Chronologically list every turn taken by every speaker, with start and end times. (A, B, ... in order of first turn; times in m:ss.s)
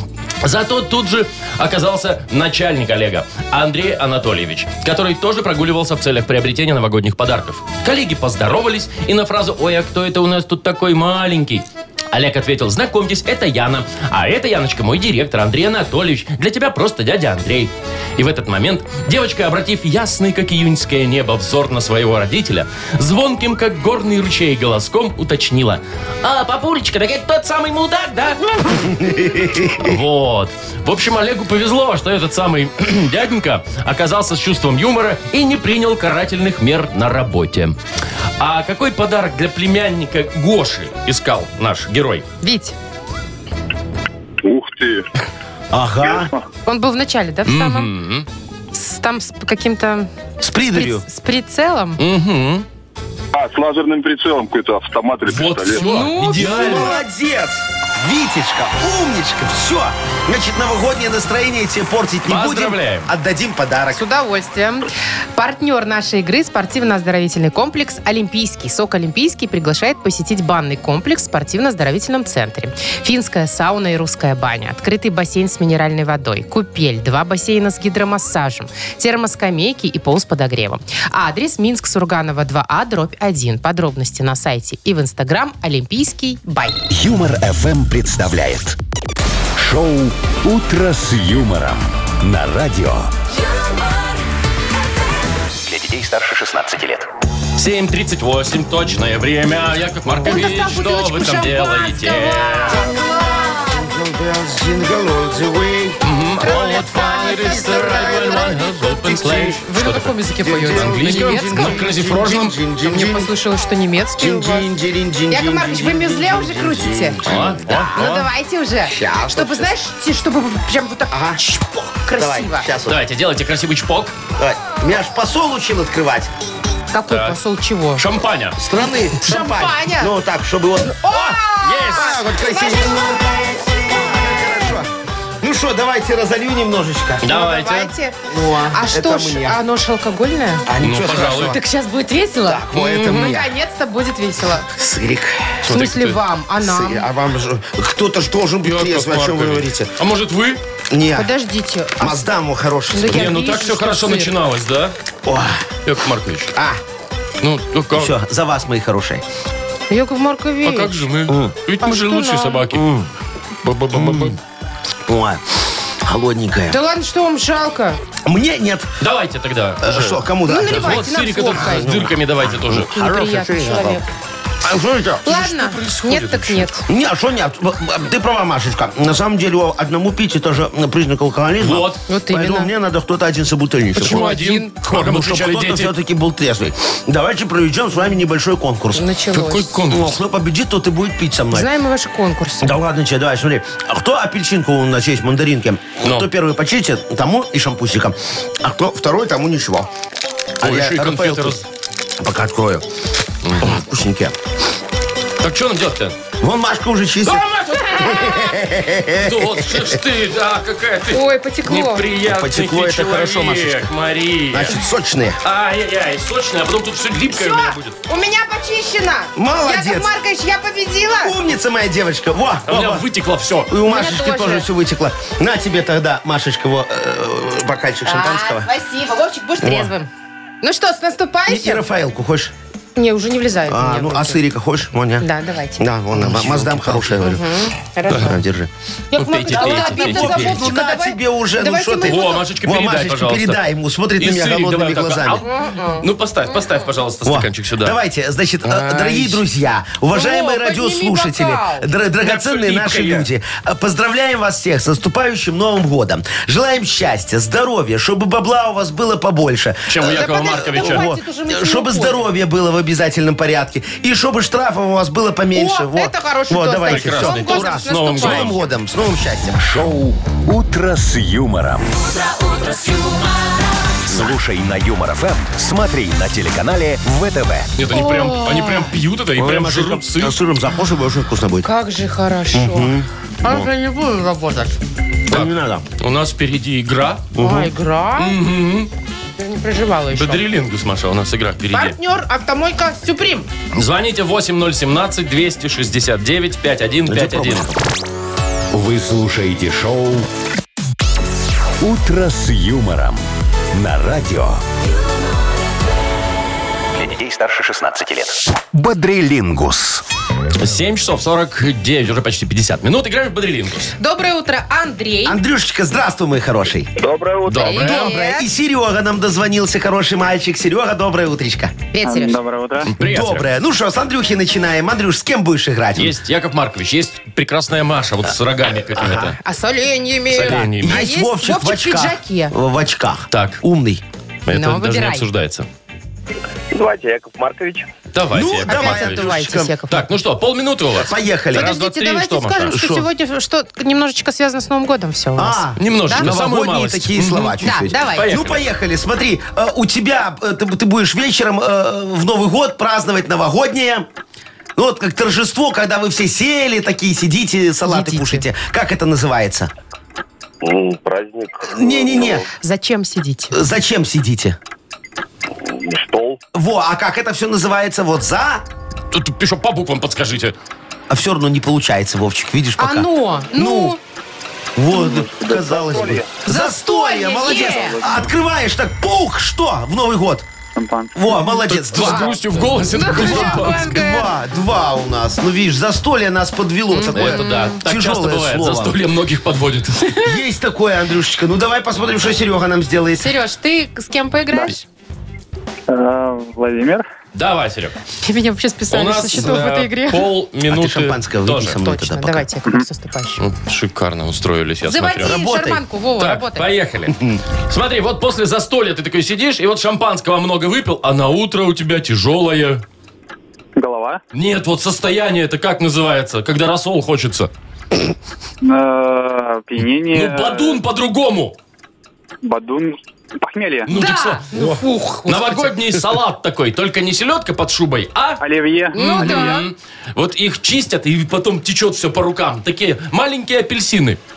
0:00.4-0:28.9 A
0:28.8-0:30.0 B
0:29.8-0:37.8 A
0:38.4-0:42.3 A
0:42.4-0:42.8 C
0:44.4-0:45.1 D
0:45.7-0:46.3 B
0:46.7-0:47.9 C
0:47.5-0:48.3 A
0:48.7-0:50.1 C
0:50.4-0:51.0 B
0:50.7-0:52.0 C
0:52.0-0:52.7 A
0:53.3-0:55.8 D
0:55.3-0:57.0 A
0:55.8-0:57.0 C
0:56.3-1:04.0 B
1:02.3-1:03.1 A
1:03.9-1:26.8 C
1:26.9-1:28.8 E
1:29.6-1:33.1 E
1:35.6-1:37.1 F
1:37.6-1:42.9 A
1:40.1-1:40.4 B
1:40.2-1:43.8 C
1:43.7-1:46.6 B
1:46.0-1:50.2 A
1:46.4-1:48.6 C
1:47.5-1:49.6 B
1:49.6-1:51.8 C
1:50.4-1:53.3 B
1:50.7-1:52.5 A
1:52.8-1:54.7 C
1:54.2-1:58.0 B
1:55.3-1:57.2 C
1:57.2-1:58.3 A
1:57.9-2:02.7 C
1:58.9-1:59.7 B
2:01.1-2:01.4 B
2:02.2-2:03.0 B
2:02.9-2:04.2 A
2:04.4-2:06.3 B
2:06.9-2:08.0 C
2:07.1-2:07.4 A
2:08.0-2:08.6 A
2:08.6-2:14.9 B
2:09.2-2:10.1 C
2:11.0-2:13.1 C
2:11.6-2:12.4 A
2:15.4-2:17.3 B
2:17.2-2:17.9 A
2:17.2-2:18.2 C
2:18.3-2:19.6 B
2:18.7-2:20.7 C
2:20.7-2:21.6 B
2:20.8-2:21.6 A
2:21.3-2:24.7 C
2:22.4-2:23.5 B
2:24.8-2:25.6 B
2:25.6-2:27.1 C
2:25.6-2:26.2 A
2:26.6-2:29.9 B
2:28.6-2:30.6 A
2:30.9-2:31.3 B
2:31.2-2:32.3 C
2:32.0-2:33.4 B
2:32.9-2:34.3 C
2:33.1-2:35.0 A
2:35.2-2:35.7 B
2:35.8-2:36.5 A
2:36.6-2:36.8 B
2:37.4-2:38.2 A
2:37.9-2:39.2 B
2:39.9-2:41.0 C
2:40.6-2:42.8 A
2:41.3-2:41.5 B
2:41.8-2:42.6 C
2:42.7-2:43.1 B
2:43.6-2:44.4 A
2:43.9-2:44.4 B
2:45.1-2:46.8 B
2:46.7-2:48.0 C
2:48.3-2:48.9 B
2:49.0-2:53.0 A
2:49.8-2:54.0 B
2:50.5-2:52.0 C
2:52.9-2:54.1 C
2:54.6-2:55.4 B
2:55.2-2:56.9 C
2:55.3-2:56.7 A
2:56.9-3:04.3 B
3:01.6-3:02.0 A
3:02.1-3:02.7 C
3:04.0-3:05.9 A
3:04.0-3:04.7 C
3:04.8-3:09.1 B
3:08.9-3:09.7 C
3:09.3-3:10.2 A
3:09.9-3:11.7 B
3:11.5-3:12.8 C
3:12.6-3:19.9 B
3:16.0-3:16.3 A
3:20.6-3:21.6 B
3:20.6-3:21.6 A
3:22.2-3:22.8 B
3:23.4-3:23.8 A
3:23.6-3:24.4 B
3:25.4-3:26.2 A
3:26.4-3:27.5 B
3:27.2-3:28.5 A
3:27.7-3:28.5 C
3:28.0-3:29.8 B
3:29.2-3:34.8 A
3:31.1-3:32.1 C
3:32.2-3:33.9 B
3:34.5-3:35.4 B
3:35.4-3:38.0 A
3:37.3-3:41.4 C
3:39.4-3:40.1 B
3:41.1-3:43.0 B
3:42.7-3:43.7 A
3:43.7-3:48.7 B
3:43.9-3:44.7 C
3:48.0-3:50.1 C
3:49.6-3:49.9 B
3:50.6-3:51.8 C
3:51.5-3:52.5 B
3:53.0-3:54.4 C
3:53.7-3:55.3 B
3:55.2-3:55.9 C
3:55.8-3:57.4 B
3:56.2-3:57.2 A
3:57.2-3:58.4 C
3:58.1-3:58.4 A
3:58.1-3:58.7 B
3:59.1-4:02.4 C
3:59.2-4:00.7 A
3:59.5-4:05.4 B
4:02.0-4:03.6 A
4:04.2-4:08.0 A
4:05.4-4:06.8 C
4:07.3-4:29.6 B
4:08.6-4:09.4 A
4:10.1-4:11.9 C
4:12.2-4:13.3 A
4:19.9-4:21.1 A
4:20.1-4:22.3 C
4:25.5-4:28.7 C
4:26.9-4:28.6 A
4:29.6-4:32.0 E
4:34.1-4:37.7 E
4:37.8-4:40.4 A
4:37.9-4:38.9 C
4:39.4-4:41.7 B
4:41.6-4:44.8 C
4:42.5-4:43.6 B
4:45.3-4:45.9 B
4:45.3-4:47.3 A
4:47.3-4:47.7 B
4:47.4-4:48.4 C
4:48.2-4:48.9 A
4:49.4-4:50.4 C
4:50.1-4:52.0 A
4:51.7-4:53.5 C
4:53.8-4:57.7 A
4:57.1-4:57.8 B
4:58.7-5:00.3 E
5:01.8-5:04.6 E
5:06.9-5:08.4 F
5:08.7-5:10.0 E
5:10.6-5:13.9 A
5:14.0-5:15.4 C
5:15.2-5:16.9 B
5:17.0-5:17.8 G
5:17.5-5:18.1 A
5:17.6-5:18.5 C
5:17.8-5:21.8 B
5:21.9-5:22.4 C
5:22.0-5:22.9 H
5:22.9-5:23.5 A
5:23.0-5:26.1 B
5:26.0-5:29.4 A
5:28.9-5:29.4 B
5:29.4-5:32.5 C
5:30.3-5:31.0 A
5:30.4-5:34.0 B
5:33.3-5:33.6 A
5:34.5-5:35.7 A
5:34.5-5:35.2 C
5:36.7-5:37.9 G
5:38.1-5:39.3 A
5:38.3-5:39.7 B
5:38.7-5:40.1 C
5:39.9-5:42.8 A
5:41.0-5:41.7 B
5:41.5-5:46.4 C
5:42.7-5:43.1 B
5:45.4-5:54.1 B
5:45.8-5:48.6 A
5:47.6-5:48.3 C
5:54.8-5:59.7 B
5:57.9-5:58.4 C
6:00.6-6:02.5 G
6:01.7-6:02.5 B
6:02.6-6:03.5 C
6:03.5-6:04.6 B
6:05.6-6:06.4 G
6:06.5-6:08.6 B
6:09.1-6:10.6 A
6:11.1-6:14.0 B
6:12.8-6:14.0 C
6:14.8-6:20.5 B
6:15.4-6:16.2 G
6:16.4-6:18.1 C
6:20.8-6:21.2 H
6:21.2-6:22.4 B
6:21.7-6:24.0 A
6:21.9-6:24.3 C
6:23.0-6:29.0 B
6:26.9-6:27.8 C
6:27.1-6:30.2 A
6:30.2-6:33.3 B
6:33.2-6:34.9 C
6:35.9-6:37.1 H
6:37.3-6:38.0 A
6:38.2-6:40.3 C
6:38.9-6:41.8 A
6:40.7-6:42.5 B
6:41.8-6:43.4 C
6:43.4-6:45.4 A
6:44.8-6:46.7 C
6:45.2-6:45.8 B
6:46.2-6:52.8 A
6:47.1-6:47.4 B
6:53.8-6:54.2 H
6:54.3-6:57.5 A
6:58.6-7:00.8 H
7:00.1-7:01.6 A
7:02.4-7:03.9 H
7:03.9-7:08.4 A
7:03.9-7:05.7 C
7:08.4-7:09.4 H
7:08.9-7:09.7 C
7:08.9-7:14.2 A